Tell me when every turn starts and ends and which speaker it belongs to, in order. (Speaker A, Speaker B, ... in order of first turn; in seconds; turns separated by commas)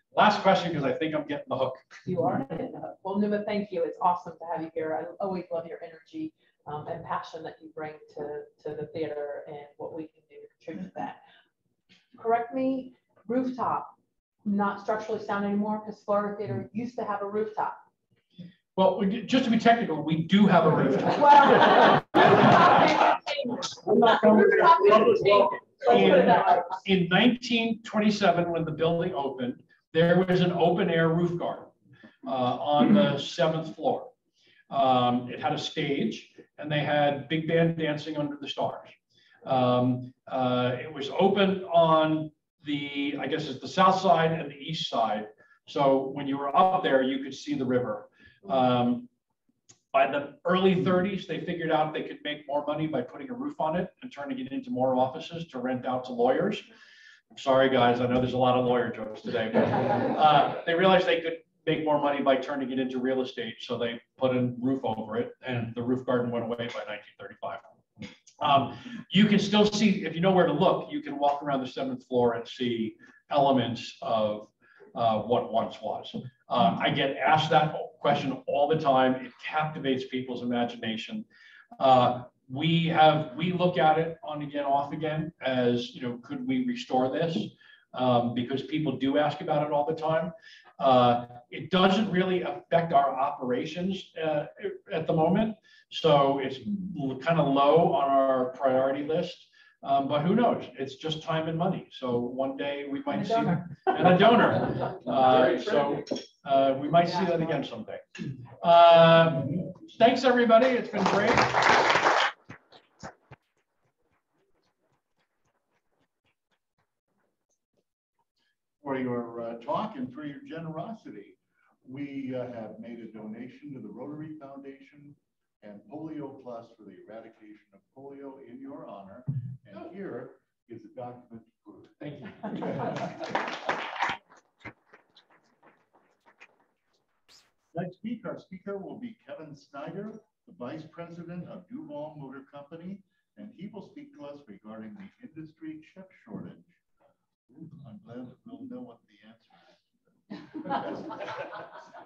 Speaker A: 0.1-2.0, Speaker B: 2.1-11.2, Speaker B: 12.2-17.8, Speaker A: 18.8-23.1, Speaker B: 21.3-21.8, Speaker A: 23.6-31.7, Speaker B: 24.6-26.8, Speaker A: 32.2-34.1, Speaker A: 34.7-49.1, Speaker A: 49.9-56.7, Speaker A: 57.3-67.7, Speaker A: 68.4-81.3, Speaker A: 81.8-108.0, Speaker A: 108.6-111.8, Speaker C: 118.8-132.0, Speaker A: 132.0-132.6, Speaker C: 137.7-146.7, Speaker C: 147.6-149.8, Speaker C: 150.5-151.4